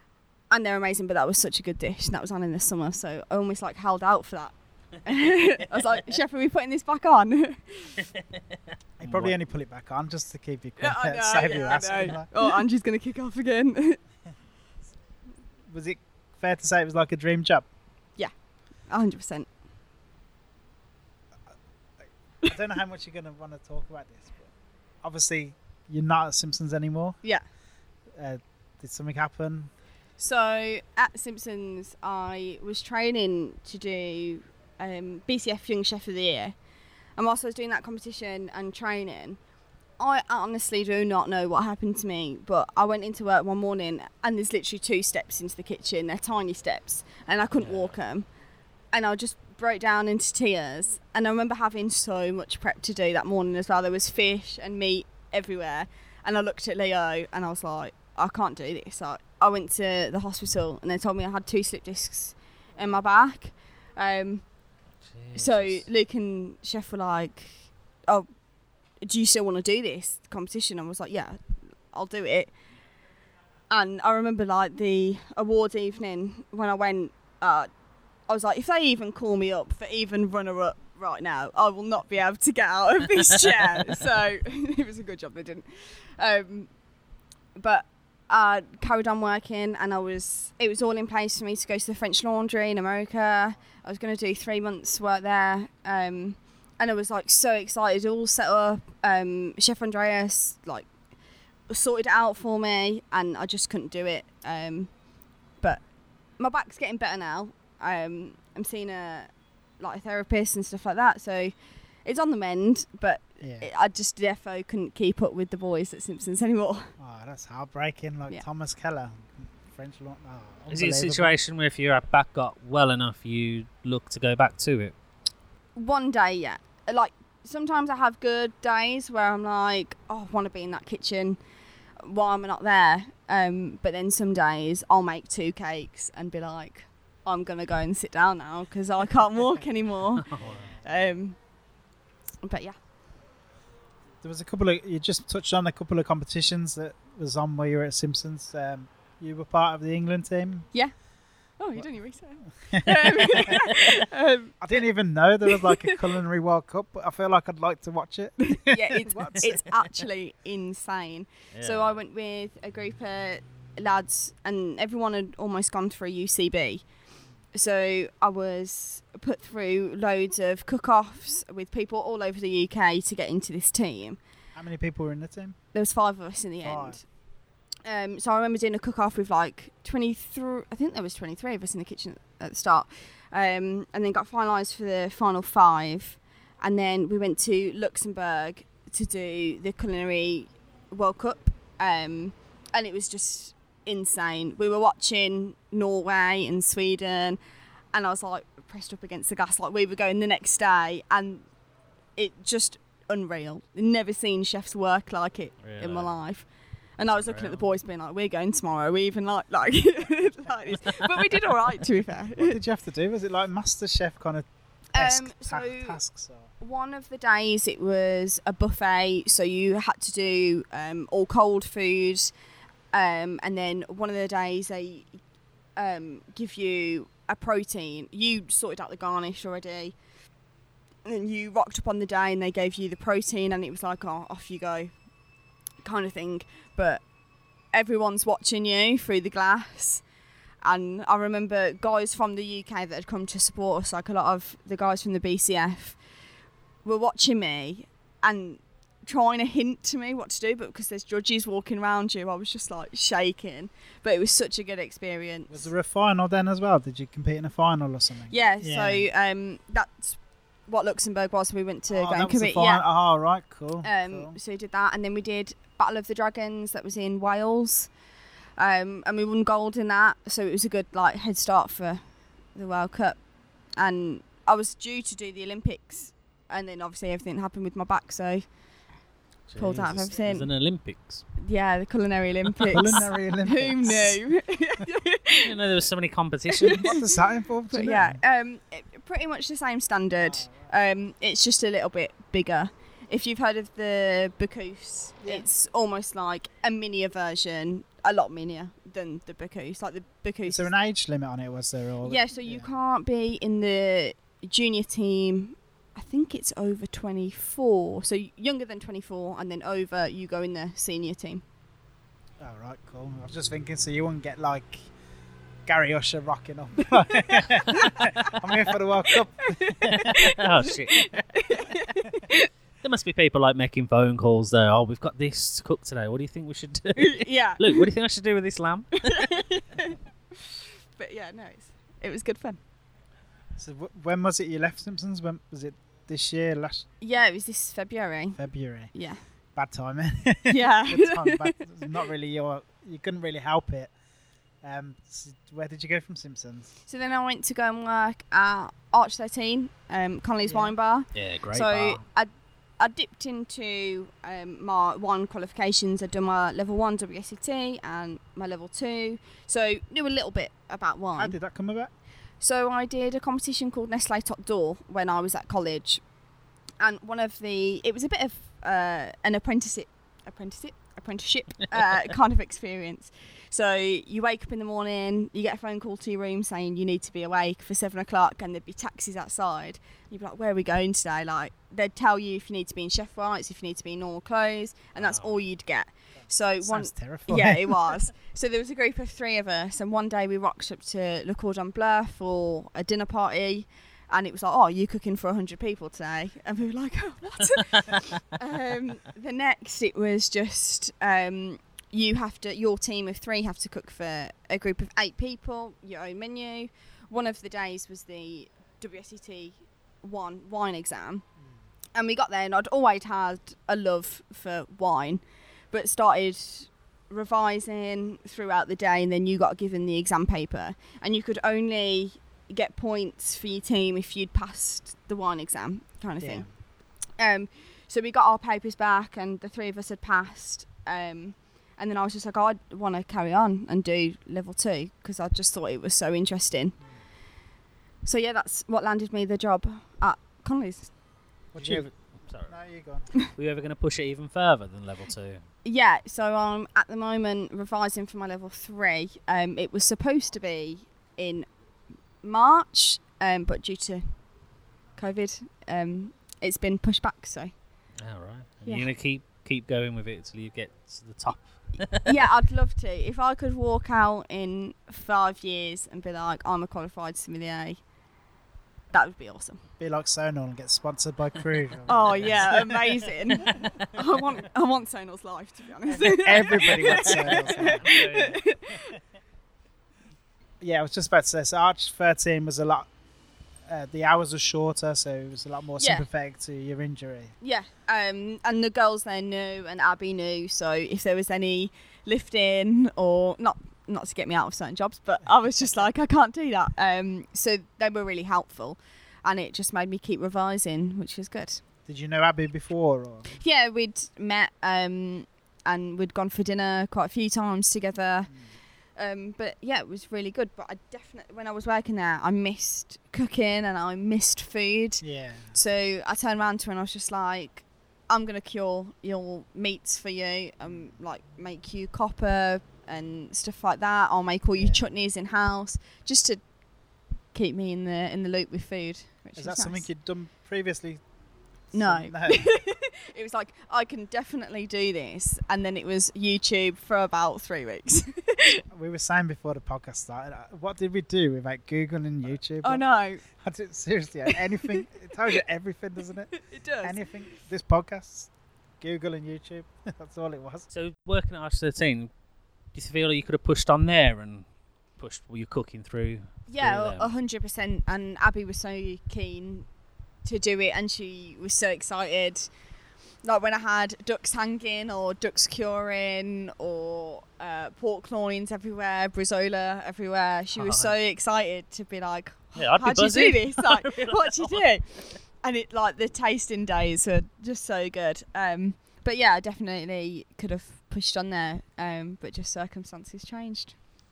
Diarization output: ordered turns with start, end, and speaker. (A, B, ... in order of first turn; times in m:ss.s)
0:00.5-0:08.0 A
0:08.0-0:08.4 B
0:09.0-0:12.3 C
0:09.0-0:09.4 B
0:10.8-0:14.0 A
0:15.7-0:17.6 C
0:18.9-0:19.5 A
0:22.4-0:27.2 C
0:28.1-0:29.7 C
0:30.2-0:36.5 A
0:37.2-0:39.4 A
0:40.0-0:48.2 A
0:47.6-0:48.0 B
0:48.9-1:04.4 A
1:05.0-1:05.9 B
1:05.3-1:08.3 A
1:09.0-1:12.5 A
1:13.7-1:17.7 A
1:18.3-1:26.7 A
1:27.5-1:40.9 A
1:41.7-1:44.9 A
1:46.4-1:51.5 A
1:52.0-1:56.9 A
1:53.4-1:53.7 C
1:57.0-2:01.4 C
2:00.7-2:04.9 B
2:05.8-2:11.4 A
2:12.0-2:20.3 A
2:20.2-2:20.7 B
2:20.4-2:20.9 C
2:20.8-2:21.4 A
2:22.4-2:22.8 A
2:24.2-2:30.7 C
2:31.6-2:34.6 A
2:32.4-2:33.5 C
2:34.6-2:39.5 C
2:35.4-2:36.0 A
2:38.4-2:46.8 A
2:41.5-2:42.0 B
2:47.5-2:54.2 A
2:54.5-2:55.6 C
2:55.7-2:57.0 A
2:56.6-2:57.0 C
2:57.8-3:17.4 A
3:17.9-3:21.4 A
3:22.2-3:32.6 A
3:25.6-3:26.1 B
3:27.1-3:27.7 B
3:32.4-3:36.5 C
3:34.9-3:36.0 A
3:36.6-3:42.3 A
3:42.9-3:45.1 A
3:45.8-3:49.9 A
3:51.0-3:55.0 A
3:55.8-3:57.0 A
3:57.7-4:00.0 A
4:00.6-4:06.0 A
4:06.8-4:15.7 A
4:15.5-4:19.1 C
4:18.3-4:22.8 A
4:21.9-4:24.4 C
4:23.8-4:27.9 A
4:28.6-4:33.2 A
4:33.8-4:38.4 A
4:39.5-4:41.2 B
4:39.6-4:40.5 A
4:41.4-4:45.5 A
4:42.7-4:44.2 C
4:45.4-4:46.9 B
4:46.6-4:47.1 A
4:46.6-4:48.2 C
4:47.7-5:00.7 A
4:50.2-4:50.7 C
4:55.2-4:55.5 C
5:00.4-5:02.7 C
5:02.0-5:11.4 A
5:12.4-5:14.9 C
5:15.6-5:20.3 C
5:19.5-5:22.5 A
5:20.0-5:21.4 B
5:22.8-5:29.3 B
5:27.0-5:27.9 A
5:29.0-5:30.0 A
5:31.0-5:32.6 A
5:33.6-5:36.8 C
5:37.0-5:38.4 A
5:38.4-5:38.9 C
5:38.9-5:39.2 A
5:39.5-5:43.9 C
5:40.5-5:41.6 A
5:44.6-5:46.7 C
5:46.9-6:01.4 A
5:50.4-5:50.7 C
5:51.1-5:52.0 B
6:01.2-6:01.9 C
6:02.4-6:06.0 A
6:06.8-6:51.2 A
6:25.0-6:25.4 B
6:26.6-6:28.0 C
6:51.9-7:06.6 A
7:06.2-7:06.5 C
7:07.1-7:16.8 A
7:18.0-7:20.9 A
7:21.5-7:23.1 C
7:21.6-7:22.6 B
7:23.2-7:25.4 B
7:25.6-7:31.4 A
7:32.2-7:34.2 A
7:34.9-7:37.5 A
7:38.0-7:42.2 B
7:38.6-7:38.9 A
7:42.0-7:47.8 A
7:48.9-7:49.6 A
7:49.8-7:52.6 C
7:51.9-7:58.7 A
7:52.1-7:52.7 B
7:53.4-7:53.8 B
7:55.9-7:58.0 C
7:56.6-7:58.4 B
8:00.6-8:02.9 C
8:03.6-8:07.3 C
8:05.8-8:06.0 A
8:07.4-8:21.6 A
8:21.8-8:23.4 C
8:23.3-8:28.3 A
8:28.9-8:46.4 A
8:35.0-8:35.5 C
8:44.6-8:44.9 C
8:47.3-8:49.9 A
8:49.4-8:51.0 C
8:51.7-8:52.5 C
8:51.7-8:58.6 A
8:58.6-9:10.7 C
9:02.6-9:03.2 A
9:04.3-9:04.6 A
9:06.4-9:07.0 A
9:10.7-9:12.1 B
9:12.7-9:17.1 B
9:16.5-9:19.7 A
9:20.2-9:22.5 A
9:23.2-9:43.8 A
9:30.6-9:31.0 B
9:32.6-9:34.7 B